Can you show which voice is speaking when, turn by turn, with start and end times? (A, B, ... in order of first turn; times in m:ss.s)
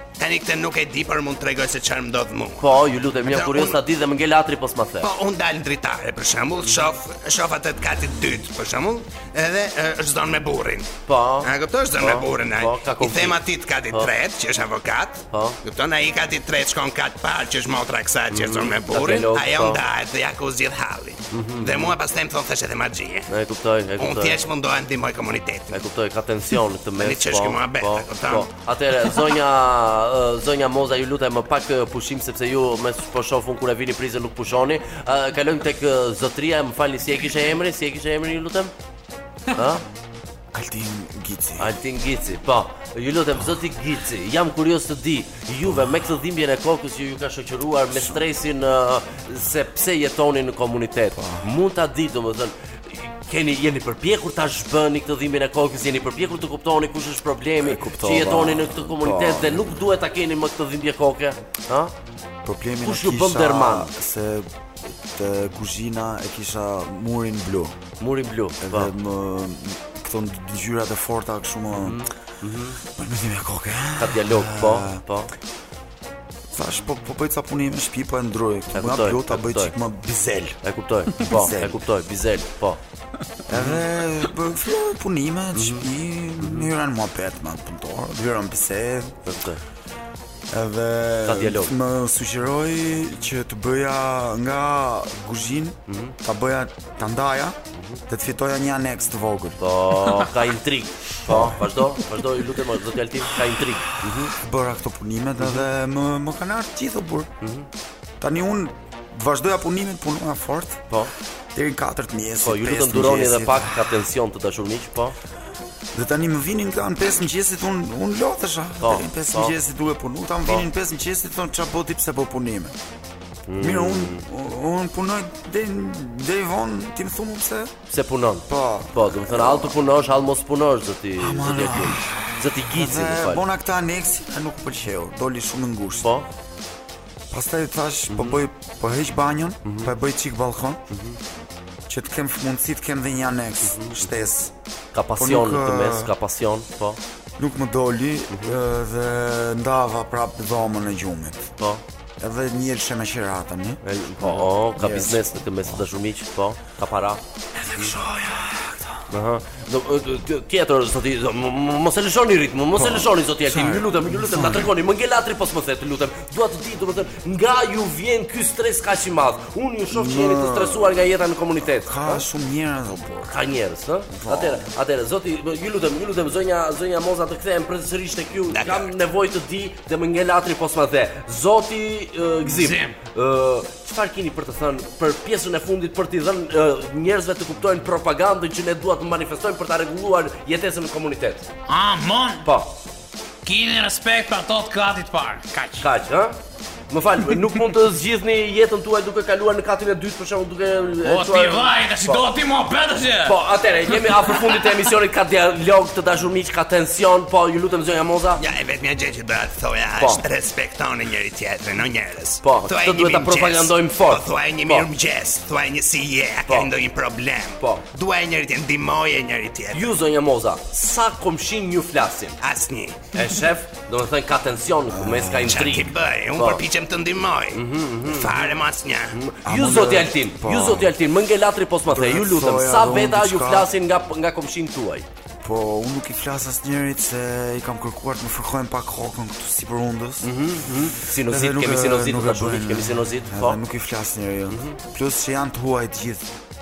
0:00.2-0:02.7 A
0:02.6-0:05.1 B
0:03.2-0:03.8 A
0:05.0-0:10.9 A
0:11.1-0:14.1 B
0:11.4-0:23.3 A
0:15.3-0:15.6 B
0:18.3-0:19.8 B
0:21.3-0:21.9 B
0:23.3-0:24.4 B
0:24.0-0:25.8 A
0:25.7-0:38.7 B
0:27.0-0:28.5 A
0:39.5-0:39.8 B
0:40.5-0:41.7 C
0:41.6-1:01.9 B
0:51.1-0:51.5 C
0:57.6-0:59.9 C
1:02.4-1:07.8 C
1:02.8-1:03.9 B
1:08.0-1:08.9 B
1:08.6-1:12.1 C
1:11.8-1:12.8 B
1:12.9-1:15.0 C
1:14.0-1:15.3 B
1:16.5-1:20.6 C
1:18.7-1:19.7 B
1:20.6-1:22.8 B
1:21.1-1:21.8 C
1:23.5-1:29.2 C
1:23.5-1:23.8 B
1:25.5-1:25.9 B
1:26.4-1:26.7 B
1:29.2-1:29.6 B
1:30.5-1:39.6 C
1:31.2-1:31.7 B
1:35.9-1:36.2 B
1:37.7-1:38.0 B
1:39.6-1:44.3 B
1:41.3-1:41.8 C
1:44.0-1:47.3 C
1:47.4-1:47.7 B
1:48.2-1:50.8 C
1:51.5-1:53.8 C
1:52.4-1:55.2 B
1:55.9-2:02.8 C
1:58.8-1:59.5 B
2:03.5-2:04.2 B
2:03.6-2:07.7 C
2:07.9-2:13.4 B
2:08.5-2:09.8 C
2:11.2-2:16.1 C
2:16.0-2:16.3 B
2:17.3-2:20.8 C
2:18.1-2:18.4 B
2:19.6-2:19.9 B
2:20.9-2:21.2 B
2:21.9-2:24.5 C
2:23.6-2:24.1 B
2:24.9-2:27.0 B
2:25.2-2:26.1 C
2:27.4-2:31.5 C
2:32.2-2:35.7 C
2:33.8-2:37.2 B
2:37.5-2:39.0 C
2:39.1-2:52.2 B
2:42.8-2:44.7 C
2:49.9-2:51.0 C
2:51.7-2:53.3 C
2:53.3-3:11.5 B
2:54.1-2:54.7 C
2:58.5-2:58.9 A
3:02.4-3:03.0 D
3:11.7-3:12.5 D
3:12.4-3:12.7 B
3:13.4-3:15.9 D
3:15.8-3:16.4 B
3:16.9-3:22.2 B
3:21.0-3:23.4 D
3:23.2-3:28.4 B
3:24.0-3:24.5 D
3:28.4-3:39.9 A
3:30.0-3:30.2 B
3:32.4-3:34.9 B
3:36.4-3:36.7 B
3:37.6-3:37.8 B
3:39.7-3:42.3 B
3:42.4-3:43.0 A
3:43.1-3:46.6 B
3:44.9-3:45.8 C
3:45.5-3:49.2 A
3:47.5-3:48.5 B
3:49.1-3:55.0 B
3:49.4-3:50.9 C
3:51.9-3:53.7 C
3:55.4-4:06.3 C
4:00.2-4:03.6 B
4:04.5-4:04.8 B